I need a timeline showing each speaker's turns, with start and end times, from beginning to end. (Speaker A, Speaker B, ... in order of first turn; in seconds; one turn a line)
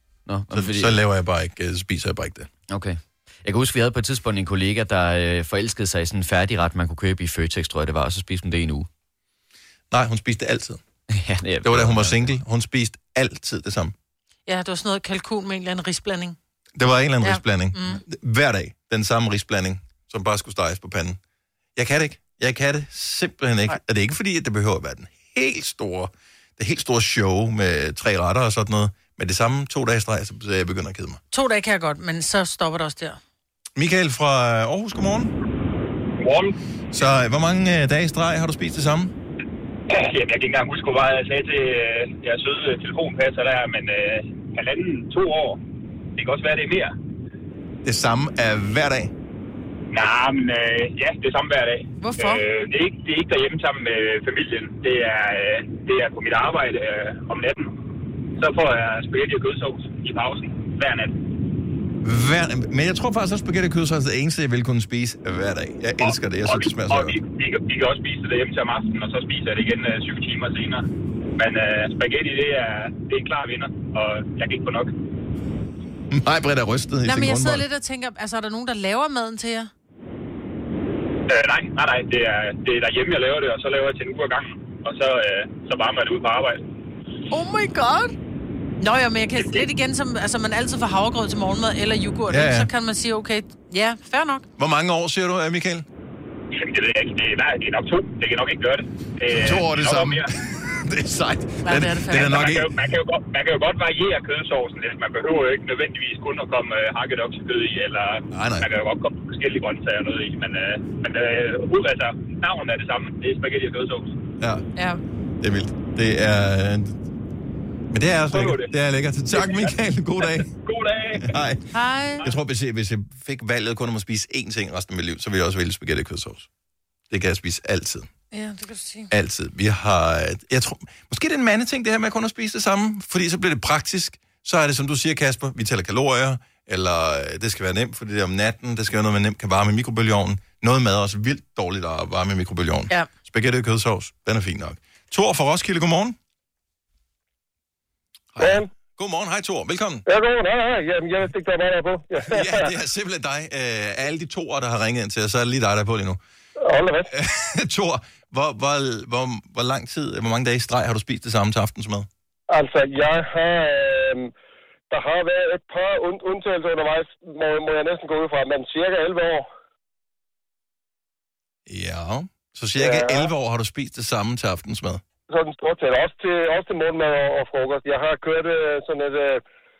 Speaker A: 0.3-1.0
Speaker B: 0.5-2.5
Speaker A: 2.7-8.9
Speaker B: 9.9-10.8
Speaker A: 11.1-12.4
Speaker B: 11.6-13.9
Speaker C: 14.5-16.4
Speaker B: 16.8-21.2
Speaker C: 17.2-18.0
Speaker B: 21.8-31.2
Speaker C: 31.3-33.2
Speaker B: 33.8-35.3
Speaker D: 36.2-36.5
Speaker B: 36.9-39.1
Speaker D: 39.9-45.6
Speaker D: 46.2-46.9
Speaker B: 47.8-49.1
Speaker D: 49.9-57.7
Speaker C: 52.0-52.4
Speaker D: 58.4-61.1
Speaker B: 62.0-67.2
Speaker D: 66.0-70.8
Speaker D: 71.4-74.9
Speaker B: 76.1-77.6
Speaker C: 77.0-79.7
Speaker D: 81.3-86.6
Speaker C: 87.3-88.1
Speaker C: 88.8-94.5
Speaker D: 89.4-89.6
Speaker B: 92.3-92.7
Speaker B: 94.6-95.8
Speaker D: 96.5-100.3
Speaker B: 99.3-102.8
Speaker C: 101.6-102.3
Speaker D: 102.2-114.1
Speaker B: 108.3-108.7
Speaker B: 114.4-114.6
Speaker C: 114.8-115.0
Speaker B: 115.4-117.0
Speaker B: 117.9-120.5
Speaker D: 118.3-118.7
Speaker D: 119.3-121.4
Speaker B: 121.1-121.6
Speaker C: 121.7-122.2
Speaker B: 122.2-126.5
Speaker B: 127.1-128.1
Speaker C: 128.3-129.1
Speaker B: 129.1-146.2
Speaker B: 148.3-150.0
Speaker E: 148.4-148.7
Speaker E: 150.1-152.7
Speaker B: 152.3-156.2
Speaker E: 156.6-157.1
Speaker B: 157.1-162.1
Speaker E: 162.5-164.3
Speaker E: 164.9-169.5
Speaker B: 171.7-175.0
Speaker E: 172.8-173.3
Speaker E: 175.3-179.4